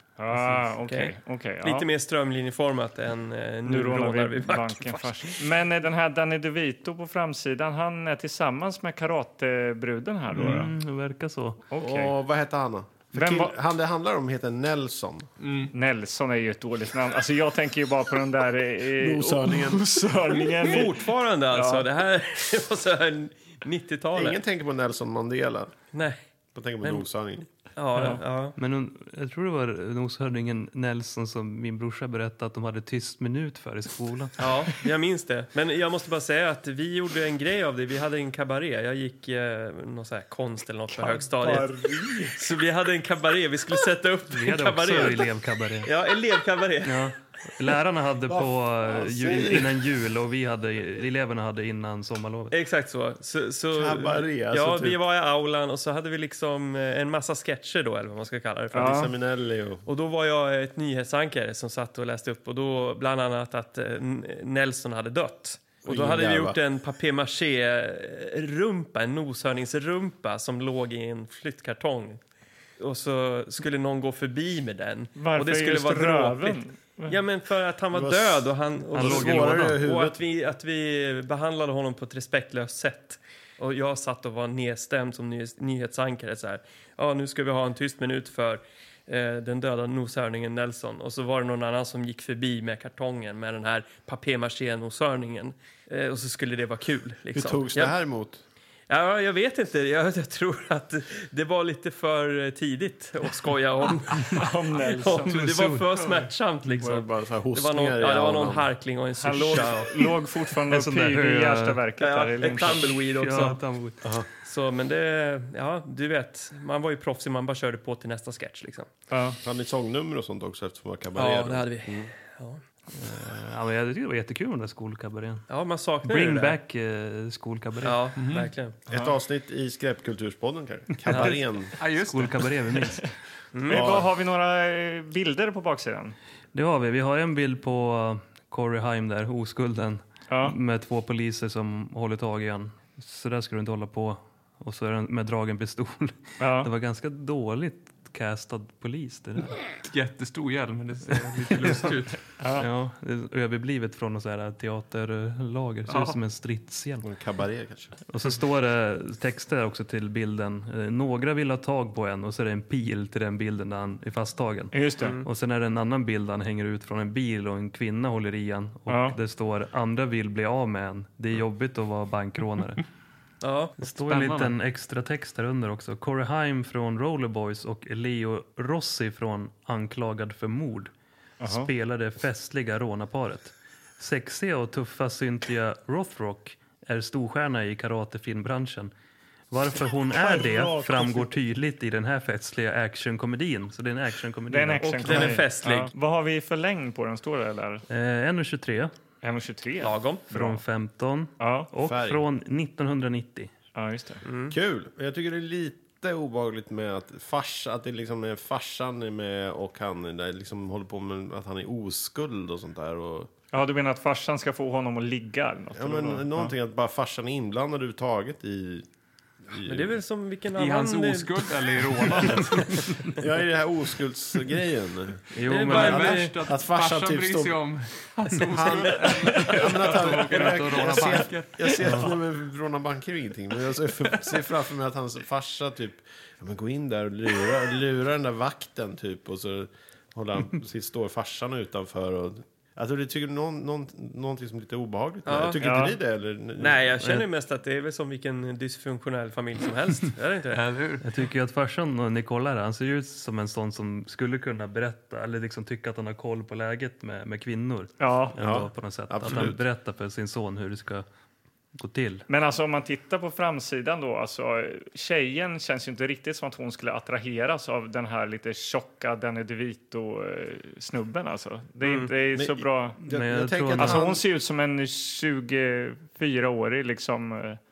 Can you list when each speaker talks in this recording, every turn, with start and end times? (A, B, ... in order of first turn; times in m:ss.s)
0:00.2-0:01.9 A
0:00.3-0:00.6 B
0:00.9-0:05.1 C
0:03.6-0:10.7 A
0:10.4-0:11.6 D
0:11.7-0:12.2 A
0:11.8-0:15.3 E
0:13.1-0:13.6 A
0:15.4-0:15.7 B
0:15.7-0:21.8 A
0:19.0-0:20.6 E
0:20.6-0:24.4 C
0:24.2-0:25.8 E
0:25.9-0:26.2 C
0:26.5-0:27.5 E
0:27.8-0:28.6 C
0:28.0-0:28.2 A
0:28.6-0:34.4 D
0:34.4-0:41.7 C
0:41.0-0:42.3 A
0:42.3-0:45.3 C
0:44.3-0:45.9 D
0:45.8-0:47.1 C
0:46.8-0:52.6 D
0:48.3-0:49.8 E
0:52.5-0:59.0 C
0:53.7-0:55.0 E
0:58.7-0:59.8 E
0:58.8-0:59.1 A
0:59.9-1:12.2 C
1:05.8-1:06.6 E
1:12.8-1:38.0 C
1:15.2-1:17.2 A
1:17.9-1:20.2 E
1:18.9-1:19.8 D
1:37.3-1:38.4 E
1:38.9-1:50.1 C
1:44.3-1:45.4 A
1:45.3-1:45.8 D
1:46.7-1:48.7 E
1:49.2-1:52.9 A
1:50.7-1:51.8 D
1:52.0-1:53.6 C
1:52.6-1:54.0 D
1:54.0-1:54.3 E
1:54.4-1:58.9 C
1:59.1-1:59.4 A
1:59.4-2:02.1 E
2:01.2-2:02.6 C
2:03.0-2:05.5 D
2:05.5-2:06.6 C
2:06.0-2:08.0 D
2:07.8-2:08.8 C
2:08.2-2:08.5 B
2:08.9-2:11.8 E
2:11.1-2:11.4 C
2:11.8-2:12.8 B
2:12.0-2:13.1 D
2:13.5-2:14.0 C
2:13.7-2:16.2 A
2:13.7-2:14.0 E
2:16.5-2:29.5 D
2:20.3-2:20.6 A
2:26.4-2:26.7 A
2:29.8-2:32.2 B
2:31.6-2:32.0 D
2:32.4-2:32.7 A
2:32.6-2:37.1 D
2:35.9-2:36.2 B
2:37.0-2:38.0 E
2:38.1-2:52.8 D
2:44.7-2:45.2 A
2:45.0-2:45.3 C
2:48.9-2:49.2 A
2:53.4-2:53.8 C
2:53.8-3:08.9 D
2:54.0-2:54.5 B
3:01.4-3:01.7 A
3:09.5-3:15.3 D
3:10.2-3:11.2 A
3:14.5-3:17.8 A
3:14.8-3:15.9 C
3:17.9-3:18.9 D
3:19.2-3:20.6 A
3:19.8-3:20.2 C
3:20.3-3:23.5 D
3:21.4-3:21.7 A
3:21.8-3:22.2 E
3:23.8-3:24.2 A
3:24.2-3:24.6 C
3:24.5-3:33.3 E
3:33.5-3:36.6 A
3:35.8-3:38.9 E
3:39.5-3:40.0 E
3:39.6-3:41.4 C
3:40.6-3:43.0 B
3:43.2-3:47.7 E
3:45.3-3:46.3 D
3:45.5-3:46.4 C
3:45.6-3:52.1 B
3:48.5-4:06.9 E
3:48.9-3:49.5 C
4:05.2-4:05.8 C
4:05.6-4:06.0 A
4:06.6-4:10.6 C
4:10.5-4:11.0 B
4:11.0-4:21.0 D
4:18.0-4:18.4 A
4:18.4-4:19.6 E
4:21.8-4:22.2 D
4:22.3-4:33.0 A
4:31.8-4:32.1 C
4:32.3-4:34.2 E
4:33.0-4:34.1 D
4:33.8-4:37.6 A